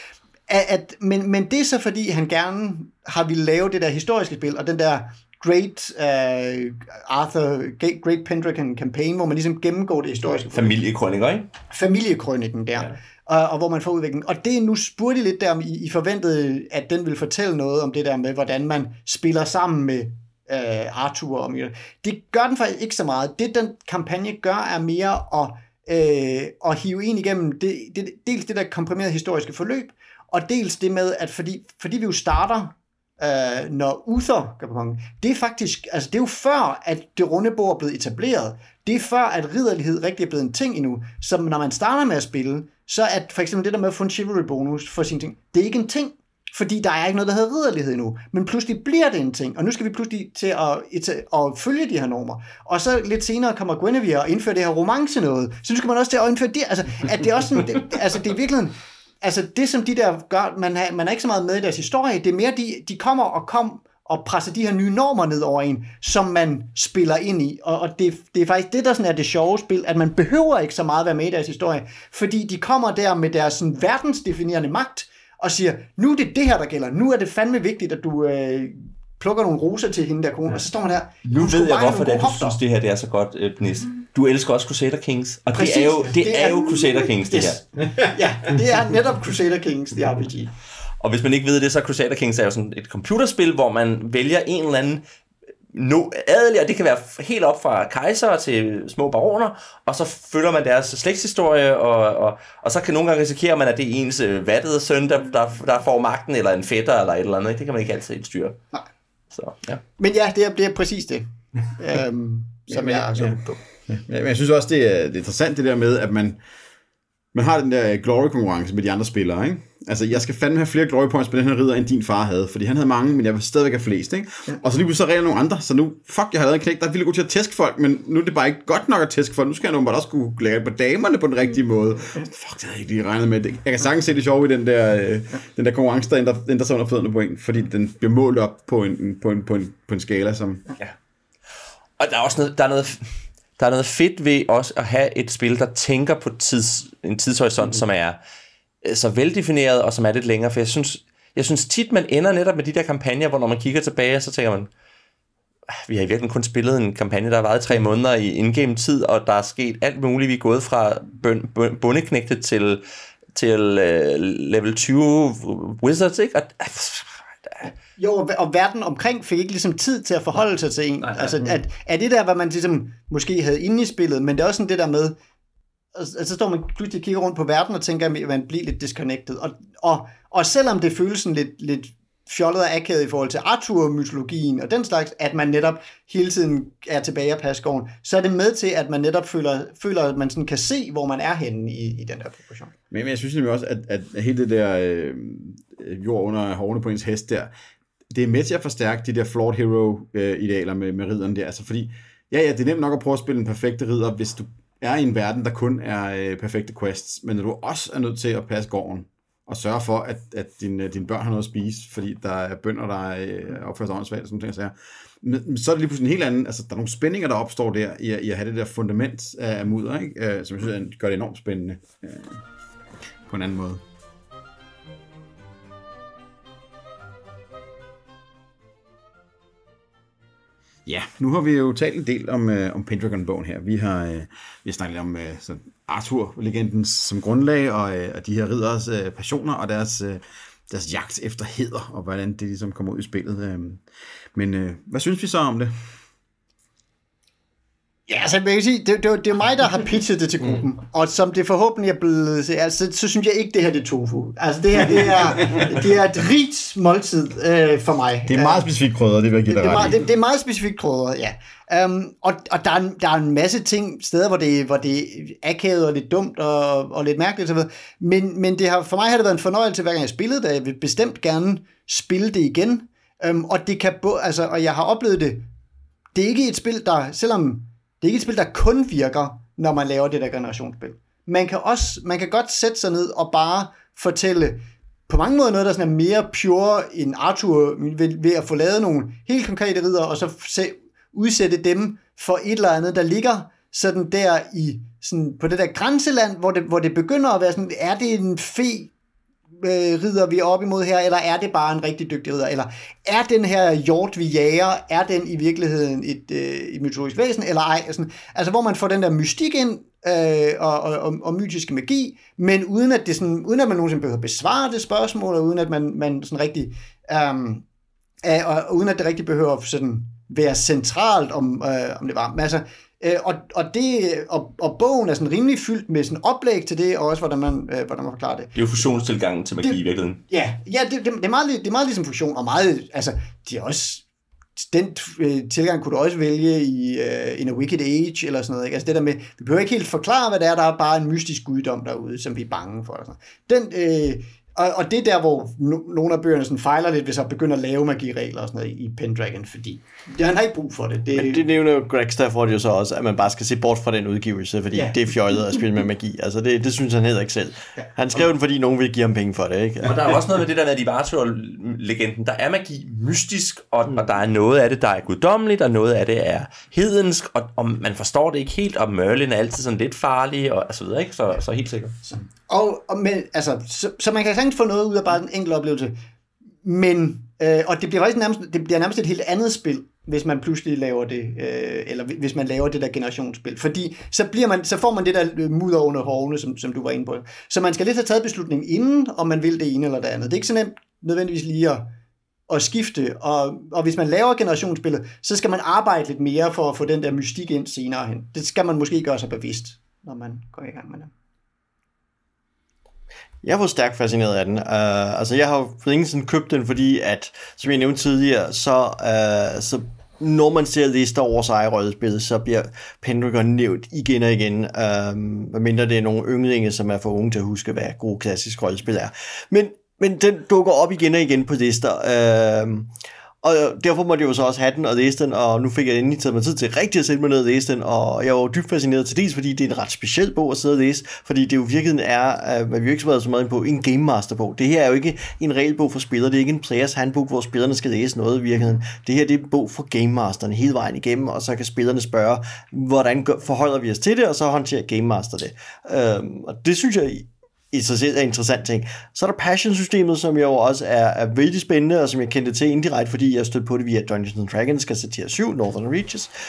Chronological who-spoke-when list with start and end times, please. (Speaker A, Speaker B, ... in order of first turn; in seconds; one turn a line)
Speaker A: 0.5-10.8
Speaker B: 10.5-11.5
Speaker A: 11.7-82.6
Speaker B: 81.3-87.6
Speaker A: 85.5-90.5
Speaker B: 91.0-95.0
Speaker B: 95.7-108.6
Speaker B: 109.3-109.8
Speaker A: 110.0-113.6
Speaker C: 112.7-116.4
Speaker C: 117.3-140.7
Speaker B: 142.0-148.2
Speaker B: 148.8-154.7
Speaker B: 155.7-162.8
Speaker B: 163.3-167.7
Speaker A: 168.0-175.2
Speaker A: 175.9-192.7
Speaker C: 192.9-197.5
Speaker C: 198.1-222.4
Speaker C: 223.3-223.8
Speaker C: 230.8-243.8
Speaker C: 244.3-245.7
Speaker A: 248.1-258.7
Speaker C: 258.3-260.0
Speaker A: 259.5-275.5
Speaker A: 276.1-298.9
Speaker A: 299.6-317.6
Speaker A: 318.2-328.5
Speaker B: 328.6-330.2
Speaker A: 329.6-334.0
Speaker A: 334.6-351.4
Speaker D: 351.1-360.2
Speaker B: 359.8-372.0
Speaker A: 372.1-375.9
Speaker A: 376.6-391.9
Speaker A: 392.5-401.1
Speaker D: 403.4-456.3